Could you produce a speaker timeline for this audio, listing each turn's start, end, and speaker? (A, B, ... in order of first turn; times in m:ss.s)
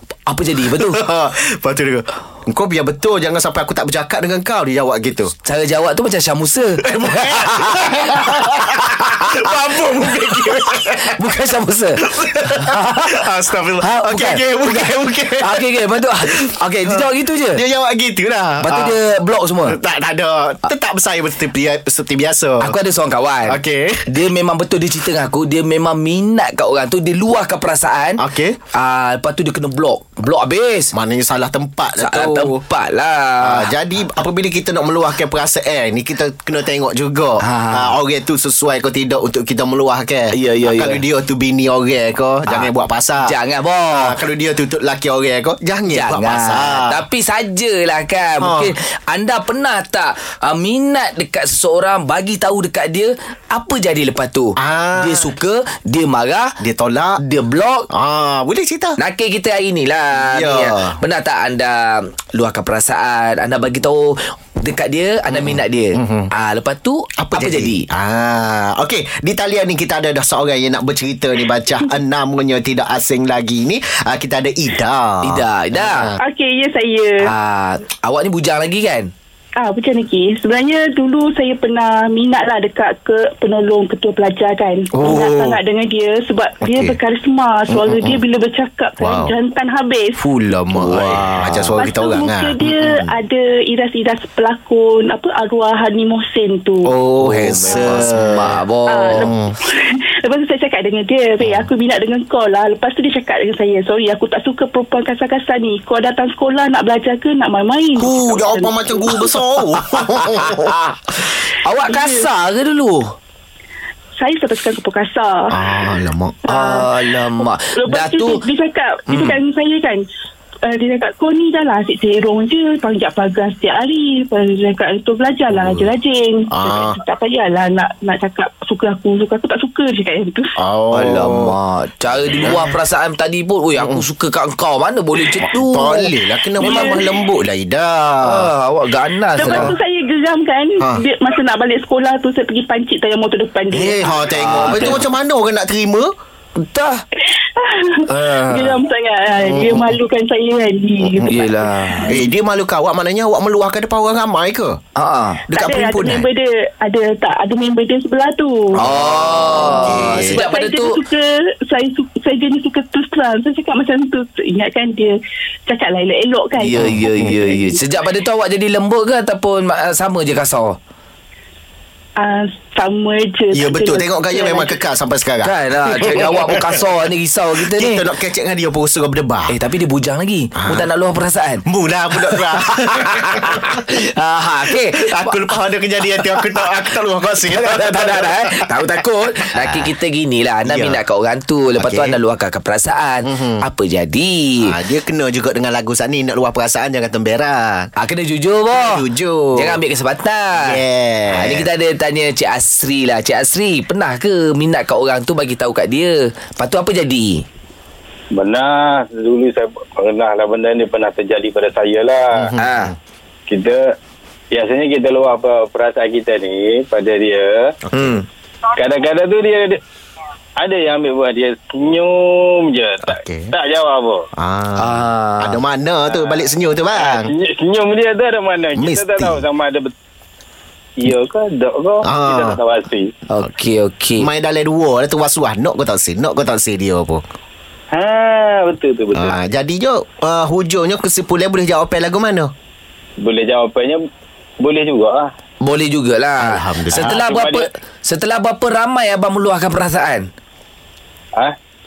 0:00.3-0:01.0 A
0:00.7-0:05.3 B
0:05.4-0:09.5 A
0:06.8-0:11.4 B
0:10.4-0:13.2 A
0:12.0-0:15.7 B
0:13.8-0:17.6 A
0:16.3-0:19.0 B
0:18.6-0:19.8 A
0:19.7-0:22.8 B
0:22.6-0:30.9 A
0:23.5-0:24.1 B
0:28.2-0:28.6 B
0:30.9-0:32.6 B
0:32.0-0:33.7 A
0:33.4-0:43.3 B
0:37.4-0:37.9 A
0:40.3-0:41.0 A
0:43.2-0:44.2 A
0:44.0-0:47.0 B
0:45.9-0:56.6 A
0:48.4-0:48.7 B
0:54.6-0:55.3 B
0:56.6-0:57.2 B
0:57.2-0:57.9 A
0:57.9-0:59.0 B
0:59.0-1:07.9 A
1:00.2-1:01.0 B
1:05.3-1:06.3 B
1:07.2-1:16.2 B
1:15.2-1:16.1 A
1:16.2-1:17.3 C
1:17.2-1:19.1 A
1:19.6-1:30.2 C
1:24.9-1:25.6 B
1:26.6-1:27.0 B
1:27.7-1:28.2 B
1:29.0-1:29.3 B
1:30.2-1:33.1 B
1:30.8-1:31.7 A
1:31.7-1:37.0 C
1:36.8-1:38.6 B
1:37.2-1:39.3 A
1:37.7-1:38.2 C
1:38.9-1:49.3 C
1:39.2-1:39.5 B
1:48.0-1:50.7 B
1:50.2-1:51.0 A
1:51.6-1:53.1 A
1:51.8-1:52.3 C
1:54.2-1:55.6 C
1:55.5-1:56.4 B
1:56.4-2:00.0 C
1:56.5-1:58.4 A
2:00.7-2:10.5 C
2:05.5-2:05.9 B
2:06.5-2:07.0 B
2:10.6-2:11.6 B
2:10.9-2:17.0 A
2:12.3-2:12.8 B
2:13.8-2:14.0 B
2:15.4-2:18.5 B
2:16.6-2:17.2 C
2:18.2-2:19.7 A
2:19.3-2:24.9 C
2:19.4-2:19.7 B
2:23.7-2:26.1 B
2:24.4-2:25.0 A
2:26.6-2:27.0 A
2:27.6-2:32.3 C
2:28.1-2:28.8 A
2:29.4-2:29.9 B
2:31.3-2:32.1 A
2:32.0-2:34.8 B
2:35.0-2:35.4 A
2:35.5-2:36.3 B
2:35.5-2:38.8 C
2:38.8-2:41.0 A
2:38.8-2:40.4 B
2:39.6-2:47.8 C
2:46.6-2:50.8 A
2:46.8-2:47.3 B
2:52.2-2:54.8 C
2:53.5-2:56.8 B
2:55.4-2:58.0 A
2:57.6-2:59.6 B
2:59.5-3:01.6 A
3:00.6-3:00.9 B
3:01.7-3:03.8 B
3:02.3-3:05.4 A
3:04.7-3:09.0 B
3:06.2-3:06.4 A
3:07.5-3:14.7 A
3:09.5-3:09.9 B
3:10.7-3:11.0 B
3:11.8-3:12.2 B
3:13.2-3:13.6 B
3:14.6-3:17.9 B
3:18.0-3:19.0 A
3:18.7-3:19.8 B
3:19.6-3:27.4 A
3:20.6-3:21.7 B
3:28.3-3:32.5 D
3:32.4-3:32.9 B
3:32.6-3:32.9 A
3:33.5-3:33.8 D
3:34.5-3:37.7 D
3:37.9-3:38.2 B
3:37.9-3:38.3 A
3:38.8-3:39.8 D
3:40.6-3:44.2 D
3:43.0-3:43.5 B
3:44.4-3:47.3 B
3:44.8-3:45.6 A
3:46.1-3:49.9 D
3:48.8-3:49.4 B
3:51.0-3:53.1 D
3:52.0-3:52.6 B
3:53.3-3:54.3 A
3:54.2-3:57.2 B
3:57.9-3:59.4 D
3:59.1-4:02.5 B
4:03.2-4:04.0 D
4:04.6-4:05.3 D
4:05.6-4:10.3 A
4:06.4-4:07.3 B
4:07.0-4:07.6 D